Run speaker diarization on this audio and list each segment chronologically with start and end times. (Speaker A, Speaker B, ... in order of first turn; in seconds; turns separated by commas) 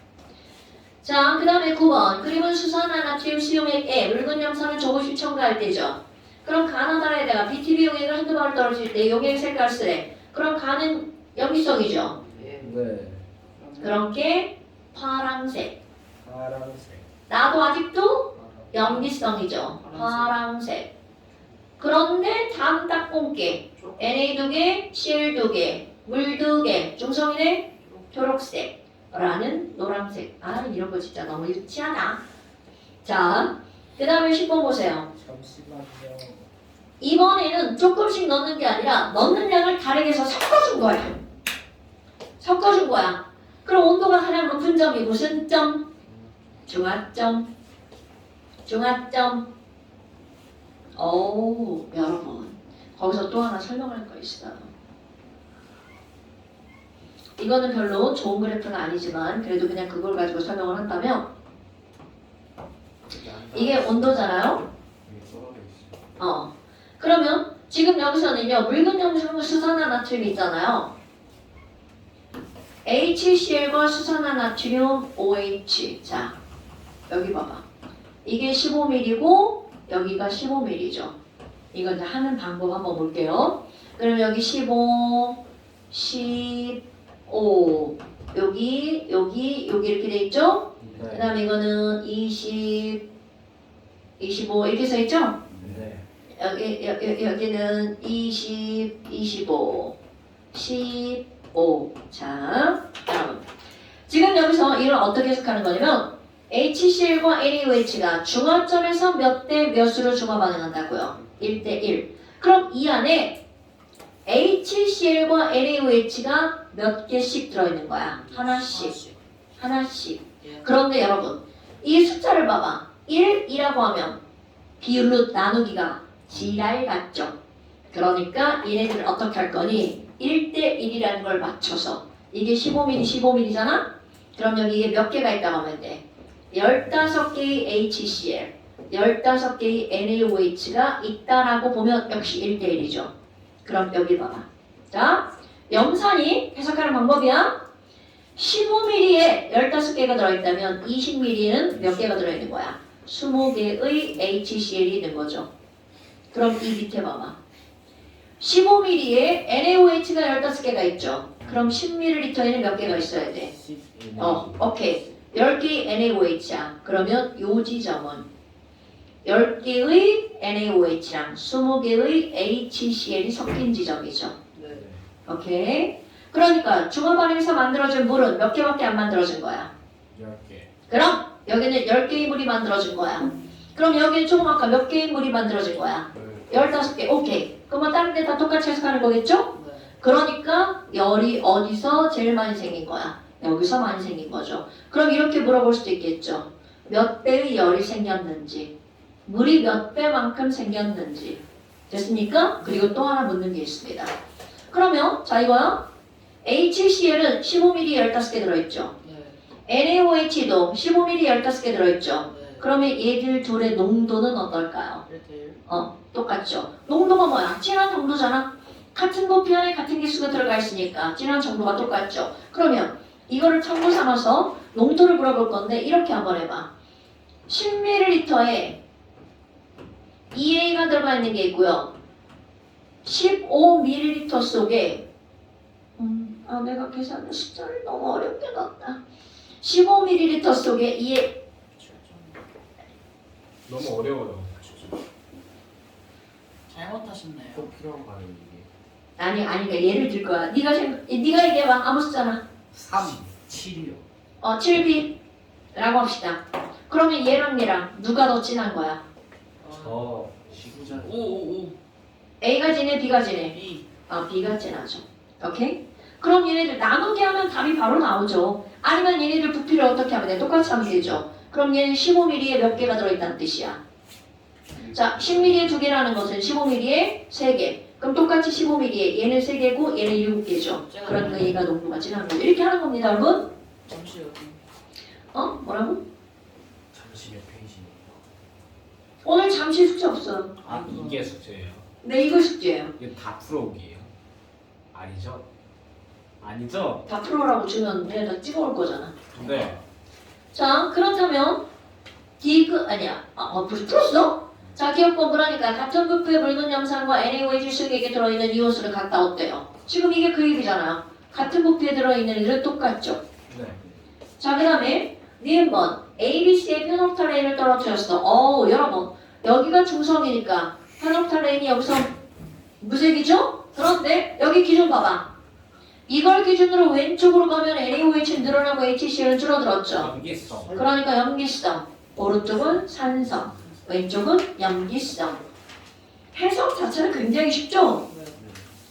Speaker A: 1.0-12.2, Speaker B: 12.1-12.8, Speaker C: 12.3-12.8, Speaker D: 12.6-13.2, Speaker C: 13.5-14.0, Speaker A: 13.8-15.8, Speaker D: 16.2-17.1, Speaker A: 17.3-20.9, Speaker C: 18.4-19.1, Speaker C: 19.6-20.4, Speaker A: 21.8-32.2, Speaker C: 27.8-28.1, Speaker A: 33.0-35.1, Speaker D: 35.1-36.5, Speaker A: 37.0-41.2, Speaker A: 42.4-45.9, Speaker B: 46.0-47.0, Speaker A: 46.7-47.5, Speaker A: 48.7-49.5, Speaker A: 51.0-54.7, Speaker A: 57.4-61.3, Speaker B: 63.1-66.2, Speaker A: 63.5-64.6, Speaker A: 66.2-70.9, Speaker A: 72.8-76.3, Speaker A: 77.1-77.6, Speaker A: 78.2-81.1, Speaker A: 81.7-93.0, Speaker D: 90.8-91.3, Speaker A: 94.2-95.4, Speaker B: 95.5-95.9, Speaker D: 95.6-96.0, Speaker A: 96.4-100.0, Speaker A: 100.5-103.5, Speaker A: 104.1-113.4, Speaker B: 111.1-111.8, Speaker A: 114.2-119.0, Speaker C: 118.1-119.2, Speaker A: 119.6-124.2, Speaker C: 120.4-120.7, Speaker A: 124.8-127.3, Speaker A: 127.9-143.1, Speaker A: 143.6-147.6, Speaker A: 148.3-155.5, Speaker A: 156.3-157.4, Speaker A: 158.4-163.5, Speaker D: 161.4-161.8, Speaker D: 162.8-164.9, Speaker A: 164.2-168.2, Speaker A: 169.2-174.4, Speaker C: 174.5-174.8, Speaker D: 174.7-175.0, Speaker A: 175.2-179.7, Speaker D: 180.1-180.7, Speaker A: 180.9-198.7, Speaker C: 183.2-183.6, Speaker D: 186.1-186.6, Speaker C: 189.5-190.0, Speaker A: 199.2-204.1, Speaker C: 202.6-202.9, Speaker A: 204.7-205.8, Speaker A: 206.4-208.9, Speaker C: 209.0-209.4, Speaker A: 209.7-215.0, Speaker C: 212.3-212.7, Speaker C: 215.0-215.6, Speaker A: 215.7-226.7, Speaker A: 227.5-228.8, Speaker A: 230.3-231.9, Speaker A: 233.0-235.0, Speaker A: 236.0-239.0, Speaker A: 239.6-241.3, Speaker C: 241.7-242.4, Speaker D: 243.7-245.0, Speaker C: 246.7-247.7, Speaker B: 247.5-248.7, Speaker A: 249.2-252.4, Speaker D: 252.7-253.3, Speaker B: 253.3-254.1, Speaker A: 254.4-255.2, Speaker A: 255.7-259.0, Speaker C: 259.6-260.0, Speaker D: 259.7-261.1, Speaker B: 260.5-261.2, Speaker C: 261.0-261.8, Speaker A: 262.4-263.6, Speaker C: 263.4-263.9, Speaker A: 264.1-273.8, Speaker B: 270.5-271.2, Speaker B: 274.6-275.8, Speaker A: 274.9-283.5, Speaker C: 280.8-281.6, Speaker C: 283.8-284.6, Speaker A: 285.3-286.0, Speaker B: 286.9-288.3, Speaker A: 289.2-290.5, Speaker C: 290.6-291.2, Speaker D: 290.6-291.9, Speaker A: 292.0-292.9, Speaker D: 293.0-294.1, Speaker D: 294.9-295.4, Speaker D: 296.4-297.1, Speaker A: 297.1-299.1, Speaker D: 299.3-299.8, Speaker B: 299.3-299.7, Speaker A: 300.5-301.6, Speaker A: 302.4-313.2, Speaker D: 313.5-313.8, Speaker B: 313.6-314.0, Speaker A: 314.4-322.1, Speaker A: 322.8-325.3, Speaker A: 326.1-330.1, Speaker D: 329.9-330.8, Speaker B: 330.4-330.9, Speaker A: 330.7-335.4, Speaker B: 333.1-333.8, Speaker A: 336.3-338.0, Speaker C: 338.1-338.4, Speaker B: 338.4-338.7